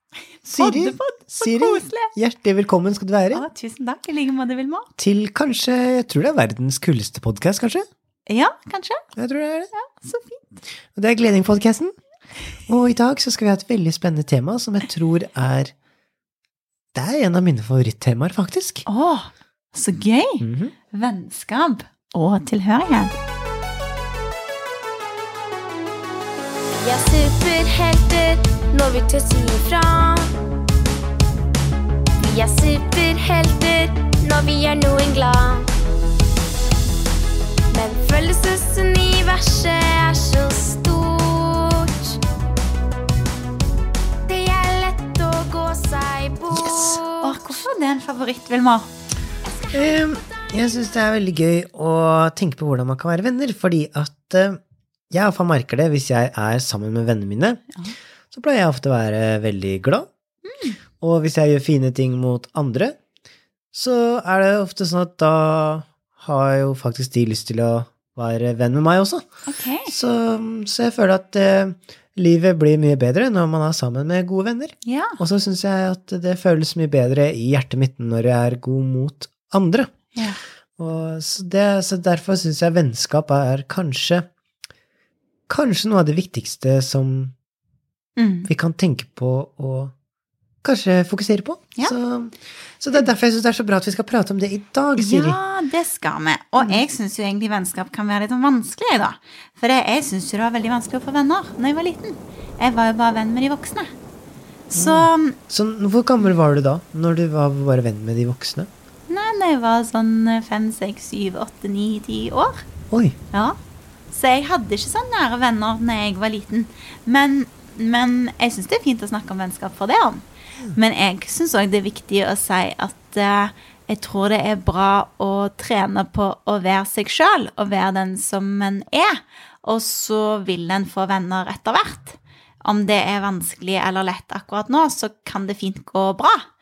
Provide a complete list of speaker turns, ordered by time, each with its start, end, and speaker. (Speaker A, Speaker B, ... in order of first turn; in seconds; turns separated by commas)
Speaker A: 0.5-2.1, Speaker B: 0.5-3.5, Speaker A: 3.3-4.9, Speaker B: 5.0-7.9, Speaker A: 8.3-9.0, Speaker B: 9.2-9.7, Speaker A: 9.7-10.4, Speaker B: 11.0-11.9, Speaker B: 12.7-15.7, Speaker B: 16.9-18.8, Speaker A: 18.9-23.1, Speaker B: 20.4-20.7, Speaker C: 26.8-30.3, Speaker C: 32.2-35.7, Speaker C: 37.7-42.2, Speaker C: 44.3-47.4, Speaker B: 46.5-47.0, Speaker A: 47.2-48.9, Speaker C: 49.5-50.5, Speaker B: 49.7-54.6, Speaker B: 55.1-57.6, Speaker B: 58.3-60.1, Speaker A: 60.5-60.8, Speaker B: 61.0-63.0, Speaker B: 63.7-69.3, Speaker A: 69.5-69.9, Speaker B: 69.9-80.0, Speaker A: 74.8-75.2, Speaker A: 80.2-80.4, Speaker B: 80.8-84.3, Speaker B: 85.5-87.3, Speaker A: 88.2-88.5, Speaker B: 88.5-89.9, Speaker B: 90.6-95.4, Speaker A: 95.0-103.9, Speaker A: 104.7-105.4, Speaker B: 104.8-108.7, Speaker A: 109.1-112.7, Speaker B: 112.9-113.2, Speaker A: 113.3-113.6, Speaker A: 114.1-136.5